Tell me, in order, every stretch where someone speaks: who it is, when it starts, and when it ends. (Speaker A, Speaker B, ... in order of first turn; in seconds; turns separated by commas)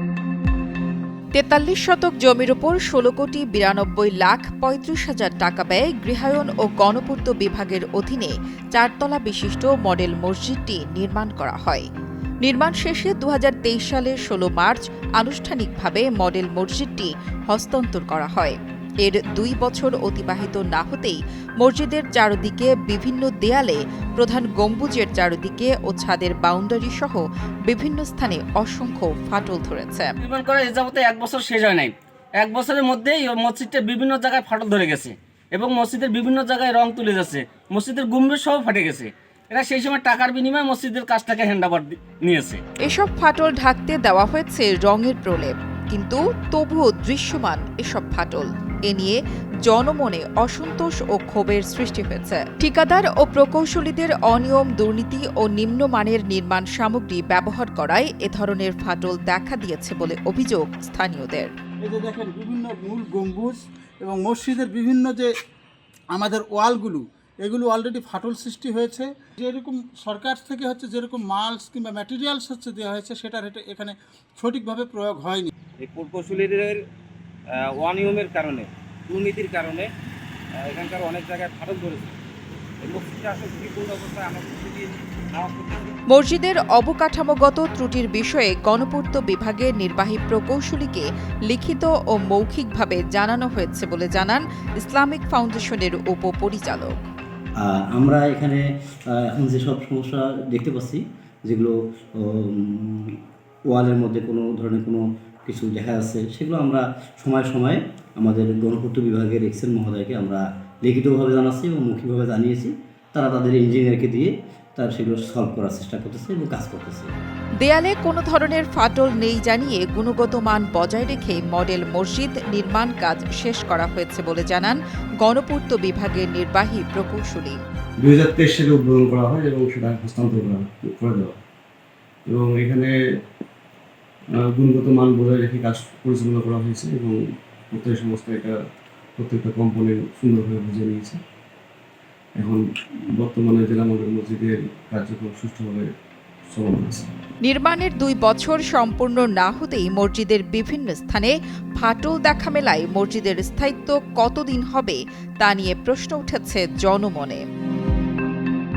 Speaker A: 1.3-11.9, Speaker A: 12.4-30.1, Speaker B: 30.2-42.6, Speaker A: 42.8-61.5, Speaker C: 61.8-65.3, Speaker C: 66.1-75.5, Speaker D: 75.8-76.8, Speaker D: 77.5-79.9, Speaker D: 80.6-82.2, Speaker D: 82.8-85.9, Speaker A: 86.1-97.0, Speaker E: 97.6-117.1, Speaker A: 117.6-127.6, Speaker F: 128.0-131.4, Speaker F: 132.3-132.9, Speaker F: 134.4-137.2, Speaker F: 137.7-138.6, Speaker F: 139.2-141.2, Speaker F: 143.2-145.9, Speaker F: 146.5-147.1, Speaker A: 147.4-157.4